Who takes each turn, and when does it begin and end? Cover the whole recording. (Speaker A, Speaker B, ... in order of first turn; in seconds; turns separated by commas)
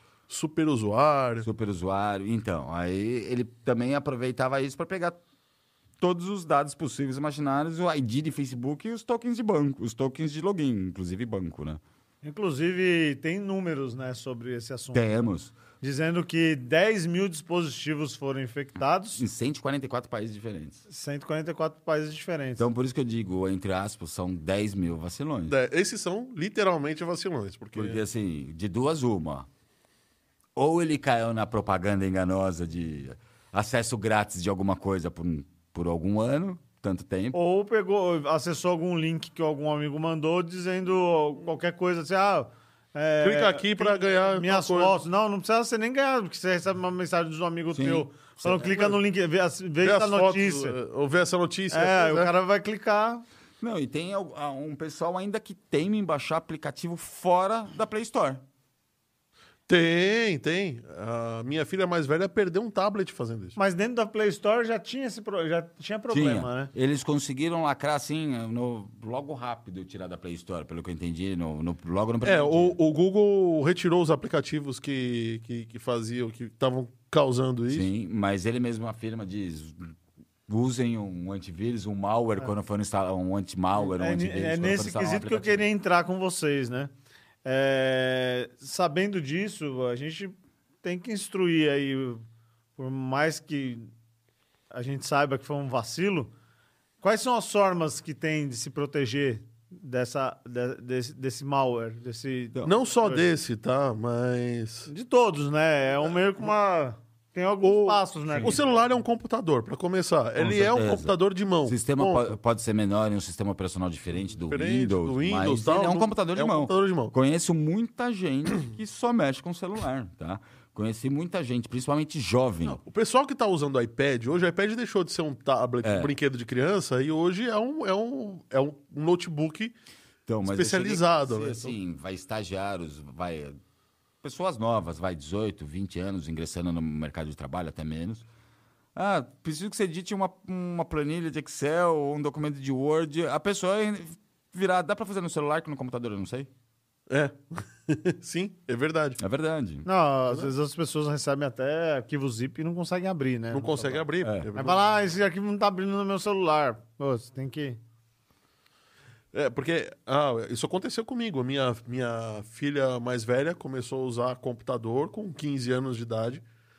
Speaker A: 0.3-1.4, Speaker B: 1.4-5.2, Speaker B: 6.0-11.8, Speaker C: 12.2-15.1, Speaker B: 14.9-15.5, Speaker C: 15.8-19.2, Speaker B: 19.1-20.8, Speaker C: 20.9-22.7, Speaker B: 22.6-25.6, Speaker A: 25.5-28.0, Speaker B: 27.7-29.5, Speaker B: 30.6-37.4, Speaker C: 37.3-50.8, Speaker A: 43.2-45.0, Speaker B: 47.7-48.9, Speaker A: 49.8-52.3, Speaker C: 51.7-53.2, Speaker B: 53.6-58.4, Speaker A: 59.7-63.5, Speaker C: 63.5-66.7, Speaker B: 66.1-72.8, Speaker A: 72.2-77.9, Speaker B: 77.7-79.9, Speaker B: 80.5-85.7, Speaker C: 83.9-86.9, Speaker C: 87.4-92.2, Speaker C: 92.8-93.9, Speaker C: 94.7-96.3, Speaker C: 97.0-103.3, Speaker A: 102.6-104.9, Speaker C: 104.9-108.6, Speaker A: 107.6-112.3, Speaker B: 108.3-108.5, Speaker B: 110.4-111.1, Speaker B: 111.7-122.8, Speaker A: 114.5-117.1, Speaker A: 122.6-129.7, Speaker B: 125.8-126.1, Speaker B: 130.3-133.6, Speaker A: 130.4-131.8, Speaker B: 134.2-138.2, Speaker B: 138.9-146.5, Speaker A: 147.1-149.2, Speaker B: 149.2-149.8, Speaker C: 149.8-154.0, Speaker A: 153.5-154.8, Speaker B: 154.2-154.5, Speaker C: 154.5-157.8, Speaker A: 159.3-166.4